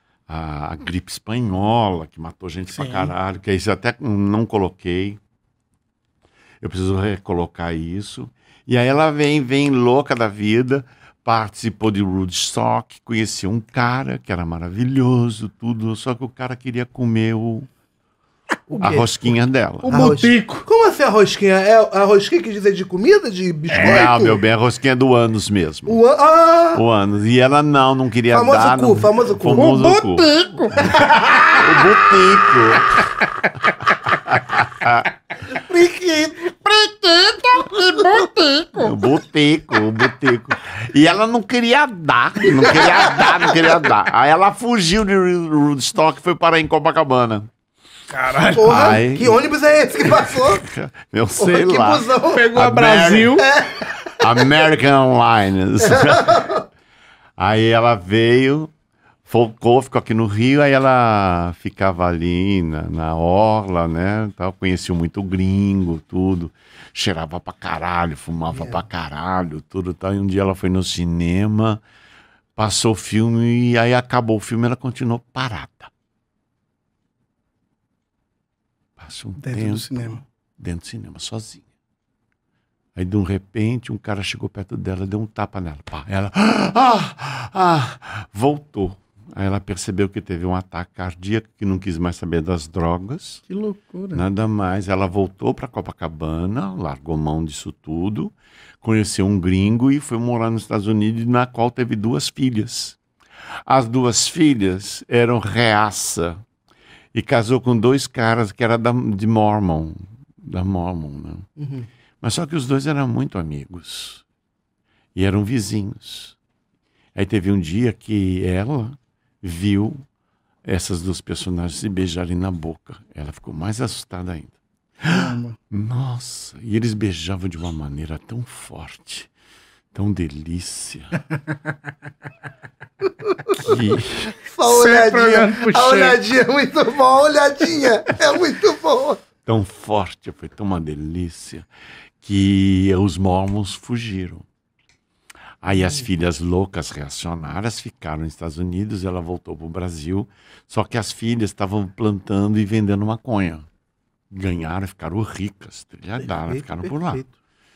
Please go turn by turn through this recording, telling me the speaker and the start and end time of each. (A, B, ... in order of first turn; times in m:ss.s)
0:00.3-0:05.2 A
0:02.7-0:03.1 B
0:06.6-0:17.7 A
0:18.7-0:19.2 C
0:18.8-0:20.2 A
0:19.8-0:20.6 B
0:19.9-0:24.4 C
0:23.7-0:24.0 B
0:23.7-0:26.0 A
0:25.9-0:26.8 C
0:26.7-0:33.0 A
0:28.3-0:29.7 C
0:29.6-0:31.9 B
0:34.1-0:35.1 A
0:35.5-0:36.6 C
0:36.6-0:39.0 B
0:38.7-0:47.5 A
0:48.1-0:48.8 B
0:48.5-0:50.6 C
0:48.6-0:49.4 A
0:50.0-0:53.4 A
0:51.4-0:52.5 C
0:52.3-0:53.5 B
0:53.4-0:53.9 C
0:54.0-0:56.5 A
0:55.8-0:56.6 C
0:57.4-0:58.7 A
0:59.2-1:11.8 A
1:08.5-1:08.8 C
1:12.6-1:15.9 A
1:19.0-1:21.6 A
1:19.4-1:20.2 B
1:23.0-1:33.4 A
1:33.5-1:34.2 B
1:34.1-1:43.0 A
1:43.7-1:46.4 A
1:47.1-1:51.5 A
1:51.6-1:51.9 C
1:52.2-1:54.2 A
1:55.1-1:56.4 A
1:57.1-2:00.0 A
2:00.6-2:09.3 A
2:05.1-2:05.6 B
2:09.9-2:11.2 A
2:13.4-2:19.2 C
2:13.6-2:14.3 A
2:14.6-2:16.2 B
2:19.4-2:21.7 A
2:22.2-2:24.4 A
2:25.6-2:33.6 A
2:25.7-2:26.1 C
2:34.3-2:37.2 A
2:36.2-2:37.3 C